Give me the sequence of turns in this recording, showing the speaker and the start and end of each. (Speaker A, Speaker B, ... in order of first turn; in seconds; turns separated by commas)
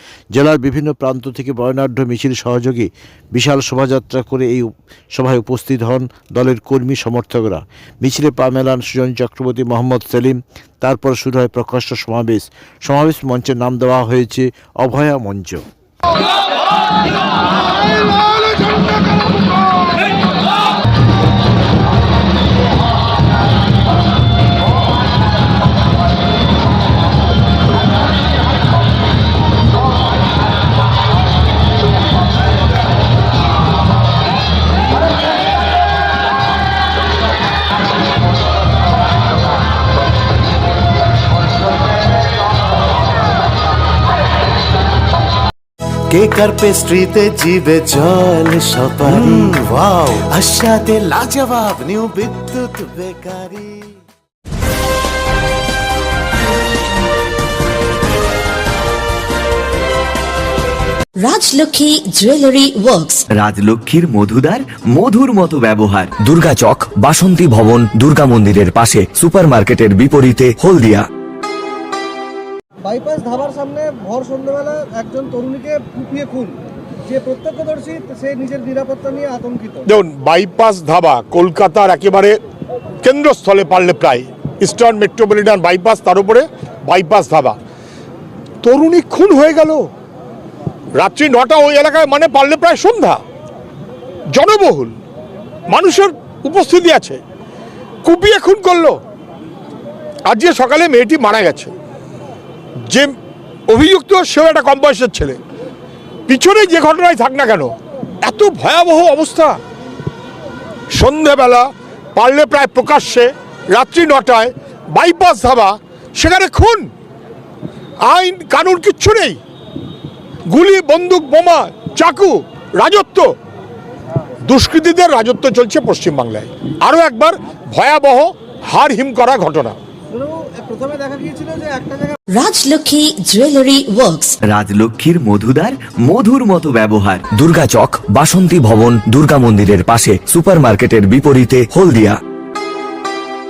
Speaker A: 0.3-15.7, Speaker B: 46.1-53.9, Speaker C: 61.2-63.2, Speaker D: 63.3-66.1, Speaker E: 66.2-71.1, Speaker F: 72.8-76.6, Speaker F: 77.1-79.8, Speaker G: 79.9-82.4, Speaker G: 83.0-87.6, Speaker G: 88.6-89.9, Speaker G: 91.0-93.2, Speaker G: 94.3-95.0, Speaker G: 95.7-97.2, Speaker G: 98.0-99.0, Speaker G: 100.3-101.7, Speaker G: 103.7-105.4, Speaker G: 106.3-107.7, Speaker G: 108.2-109.6, Speaker G: 110.9-116.9, Speaker G: 118.0-119.4, Speaker G: 120.5-123.3, Speaker G: 124.5-129.8, Speaker F: 130.2-134.3, Speaker C: 132.4-134.3, Speaker D: 134.5-137.2, Speaker E: 137.3-142.2